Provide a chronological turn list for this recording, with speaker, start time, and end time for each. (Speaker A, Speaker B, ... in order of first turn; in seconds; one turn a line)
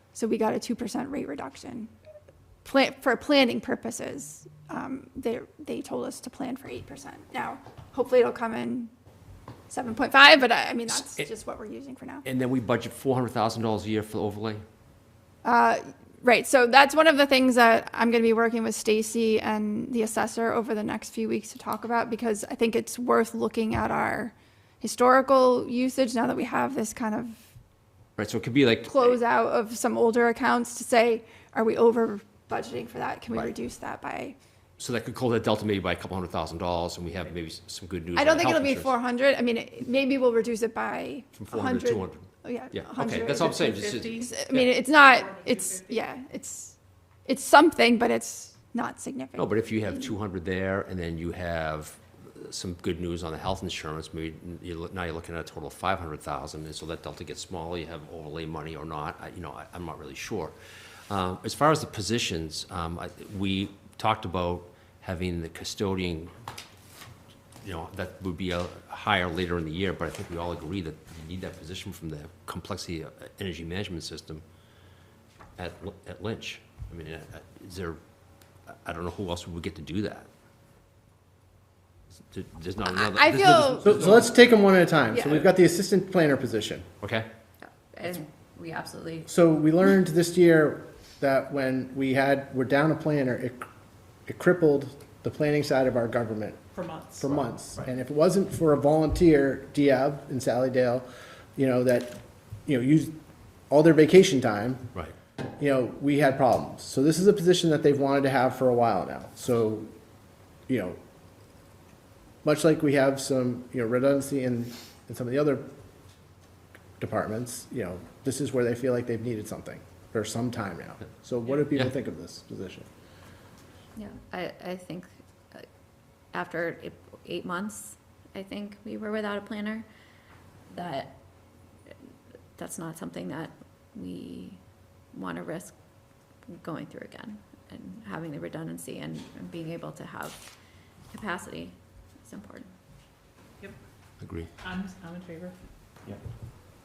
Speaker A: 0.1-1.9
Speaker A: 2.6-8.9
Speaker A: 9.7-12.2
Speaker B: 10.9-11.3
Speaker B: 12.2-14.6
Speaker A: 15.4-27.4
Speaker B: 28.2-29.2
Speaker A: 28.9-34.4
Speaker B: 34.8-38.9
Speaker A: 38.1-43.5
Speaker B: 41.4-44.7
Speaker C: 43.0-44.4
Speaker A: 44.1-50.1
Speaker C: 44.9-46.0
Speaker B: 49.4-60.5
Speaker B: 61.1-66.3
Speaker B: 67.6-74.4
Speaker B: 75.6-78.0
Speaker B: 78.7-80.3
Speaker B: 82.3-84.3
Speaker A: 82.9-83.9
Speaker D: 83.8-86.9
Speaker A: 85.1-85.4
Speaker B: 87.0-87.2
Speaker E: 87.6-89.3
Speaker D: 89.3-93.6
Speaker D: 94.3-96.6
Speaker C: 96.7-97.3
Speaker D: 97.2-101.0
Speaker D: 101.5-103.2
Speaker D: 103.7-104.9
Speaker D: 105.6-109.9
Speaker D: 110.7-111.0
Speaker D: 112.4-115.7
Speaker D: 117.0-122.9
Speaker E: 124.0-125.7
Speaker E: 126.3-129.8
Speaker E: 130.7-131.2
Speaker E: 132.6-134.6
Speaker E: 135.1-135.7
Speaker E: 136.5-140.4
Speaker E: 141.1-142.7
Speaker B: 144.2-144.5
Speaker C: 144.6-145.6